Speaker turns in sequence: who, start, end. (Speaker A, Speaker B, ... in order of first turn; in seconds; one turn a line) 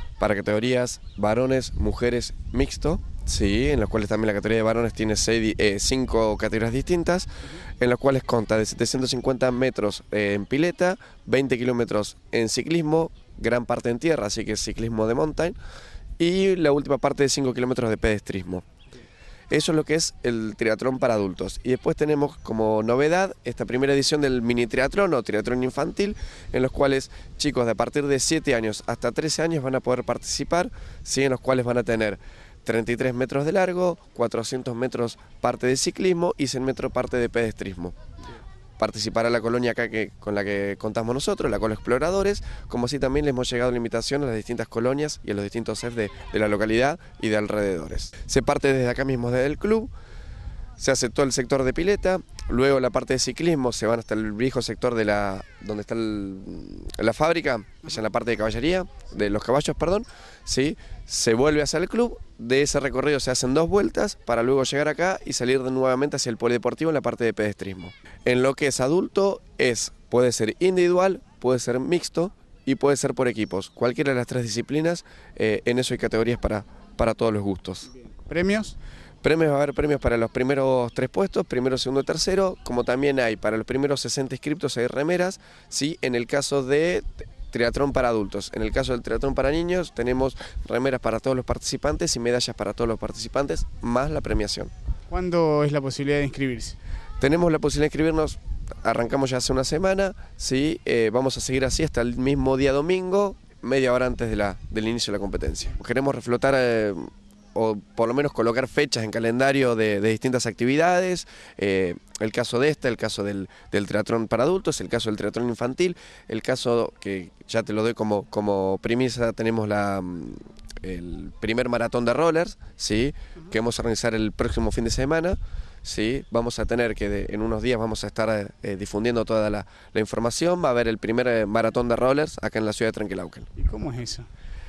Speaker A: 0.2-7.3
Speaker A: 7.8-15.6
Speaker A: 16.2-18.7
Speaker A: 19.5-38.0
Speaker A: 38.8-49.9
Speaker A: 50.8-77.9
Speaker B: 78.0-78.8
Speaker A: 79.2-94.7
Speaker B: 95.1-96.8
Speaker A: 97.2-133.5
Speaker B: 133.6-134.3